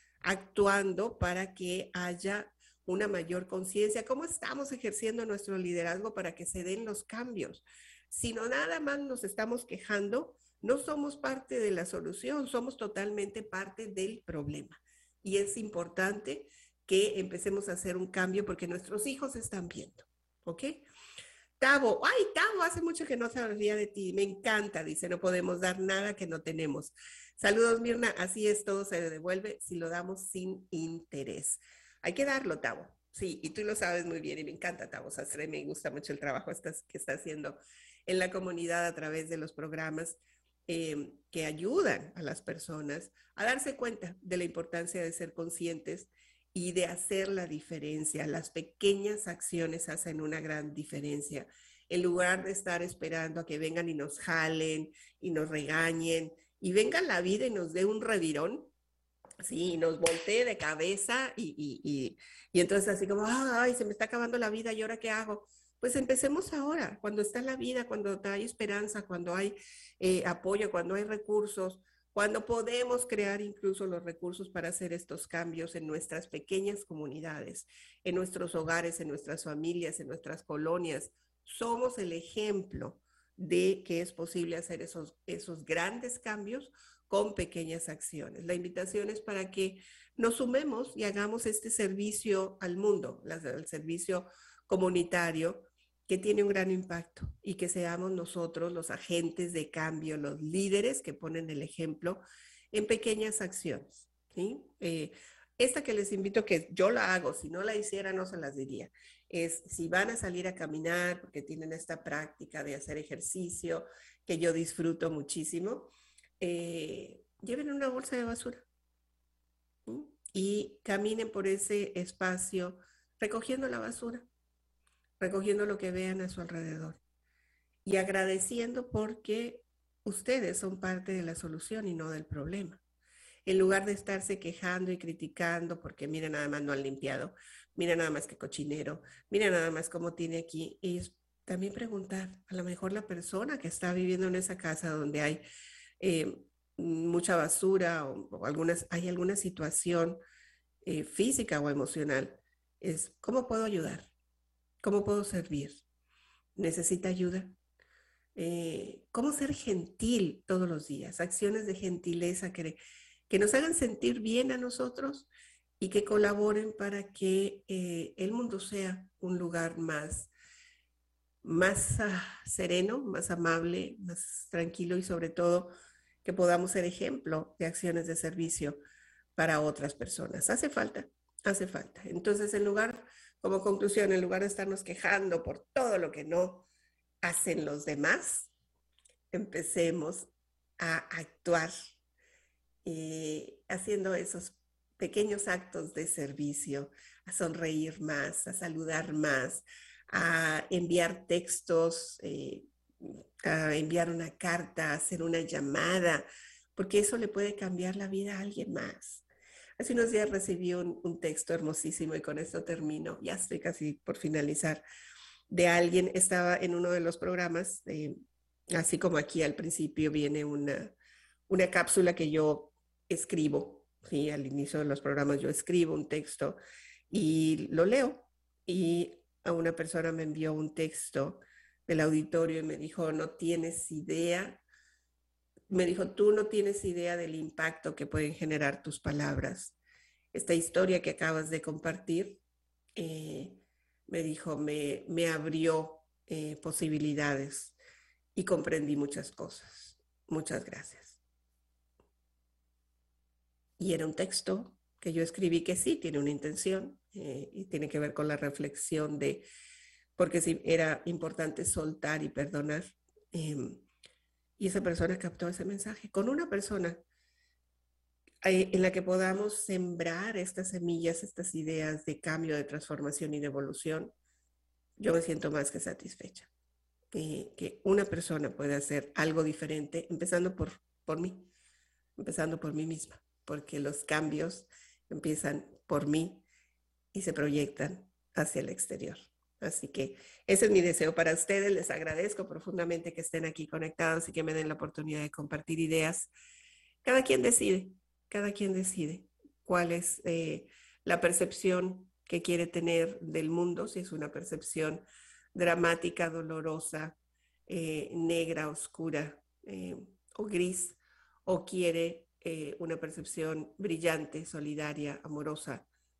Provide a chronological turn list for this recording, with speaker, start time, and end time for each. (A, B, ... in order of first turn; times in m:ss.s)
0:00.2-0:20.8 A
0:21.6-0:58.7 A
0:59.4-1:58.7 A
1:59.9-2:04.3 A
2:05.2-2:07.0 A
2:07.8-2:12.8 A
2:13.5-2:25.4 A
2:26.0-2:30.2 A
2:30.8-2:34.1 A
2:34.8-2:35.8 A
2:36.6-2:37.6 A
2:38.4-2:50.3 A
2:51.4-2:55.7 A
2:56.2-2:58.8 A
2:59.4-3:06.7 A
3:07.2-3:08.5 A
3:09.3-3:11.7 A
3:12.8-3:29.3 A
3:29.8-3:34.8 A
3:35.5-3:38.1 A
3:38.7-3:40.9 A
3:41.5-3:46.6 A
3:47.1-3:54.6 A
3:55.7-3:59.8 A
4:00.3-4:02.4 A
4:03.0-4:07.8 A
4:08.4-4:11.2 A
4:13.8-4:19.4 A
4:20.2-4:23.9 A
4:24.6-4:27.0 A
4:28.4-4:34.1 A
4:35.0-4:36.5 A
4:37.1-4:41.5 A
4:42.2-4:46.4 A
4:47.1-4:56.3 A
4:57.0-5:15.9 A